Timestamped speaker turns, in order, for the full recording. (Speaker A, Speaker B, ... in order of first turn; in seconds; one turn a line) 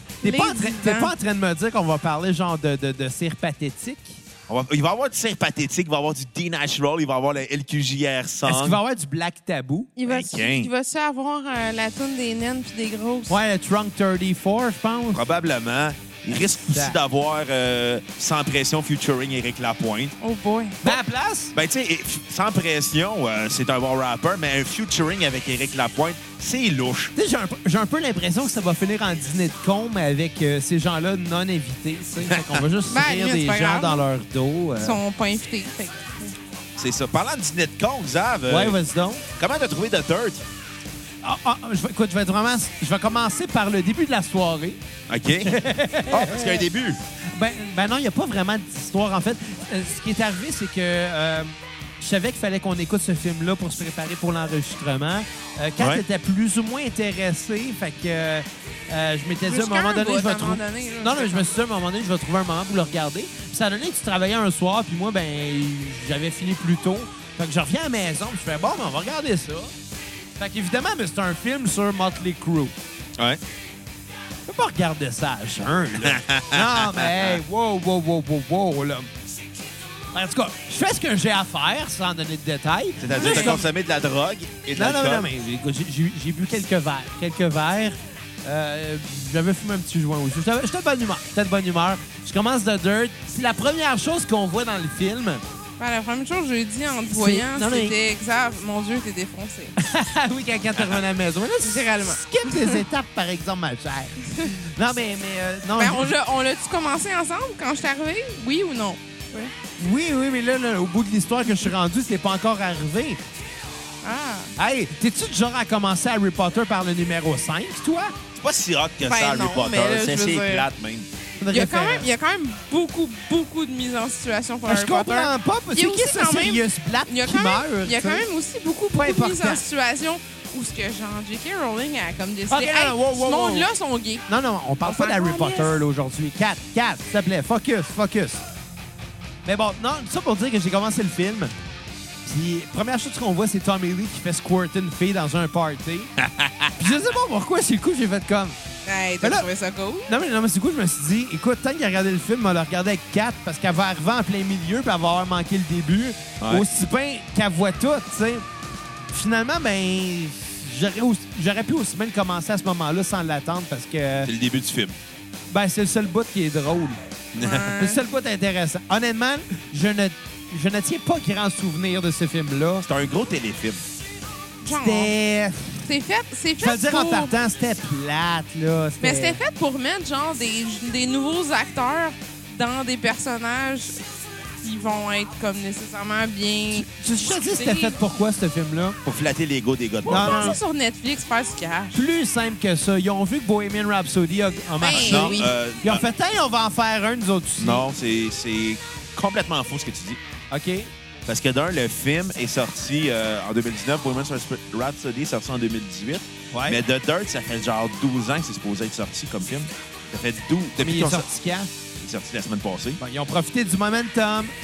Speaker A: 0.2-1.1
Speaker B: 0.2-4.2
Speaker C: 4.5-8.8
Speaker B: 8.5-9.9
Speaker A: 10.0-13.4
Speaker C: 10.1-10.7
Speaker B: 13.3-15.2
Speaker C: 15.1-20.1
Speaker B: 16.6-17.0
Speaker A: 20.2-21.0
Speaker B: 20.8-21.5
Speaker C: 21.5-27.1
Speaker B: 27.1-35.0
Speaker C: 32.2-32.6
Speaker A: 32.9-34.0
Speaker A: 34.8-36.3
Speaker C: 36.8-38.8
Speaker B: 38.5-39.2
Speaker C: 39.4-40.4
Speaker B: 41.2-44.8
Speaker C: 45.1-47.0
Speaker B: 45.4-46.7
Speaker B: 47.3-69.7
Speaker C: 55.8-56.0
Speaker A: 59.5-61.5
Speaker B: 70.4-72.8
Speaker B: 74.5-79.1
Speaker C: 76.0-77.4
Speaker B: 80.1-83.7
Speaker C: 83.0-85.3
Speaker A: 83.2-83.6
Speaker B: 84.7-95.4
Speaker A: 95.8-99.8
Speaker B: 97.1-98.0
Speaker B: 99.8-106.1
Speaker C: 100.8-101.0
Speaker A: 101.6-102.8
Speaker A: 105.8-109.5
Speaker B: 109.8-113.2
Speaker A: 114.0-114.5
Speaker B: 114.6-118.2
Speaker C: 118.4-121.1
Speaker A: 119.0-120.7
Speaker B: 121.4-122.1
Speaker A: 121.5-134.3
Speaker B: 124.7-128.3
Speaker B: 128.9-129.6
Speaker B: 132.5-133.7
Speaker B: 134.3-138.4
Speaker A: 134.8-135.8
Speaker B: 139.4-141.5
Speaker B: 142.2-146.1
Speaker C: 146.2-146.8
Speaker B: 146.8-148.6
Speaker A: 148.9-150.1
Speaker B: 149.2-149.5
Speaker B: 150.1-158.4
Speaker C: 156.4-156.7
Speaker B: 159.1-164.3
Speaker C: 164.2-165.0
Speaker B: 165.5-167.0
Speaker C: 167.3-167.7
Speaker A: 167.4-168.0
Speaker B: 167.5-172.9
Speaker C: 172.8-173.8
Speaker A: 174.6-175.1
Speaker B: 174.7-175.9
Speaker A: 175.8-177.4
Speaker B: 176.6-179.4
Speaker A: 179.0-184.0
Speaker A: 184.6-188.0
Speaker B: 186.7-189.0
Speaker C: 189.1-190.6
Speaker B: 190.1-190.6
Speaker A: 190.1-192.0
Speaker B: 191.9-197.8
Speaker A: 194.8-195.5
Speaker C: 194.9-196.1
Speaker C: 197.6-200.2
Speaker B: 200.5-200.9
Speaker C: 201.3-211.3
Speaker B: 206.5-206.8
Speaker B: 210.8-211.7
Speaker C: 211.9-213.0
Speaker B: 213.0-214.5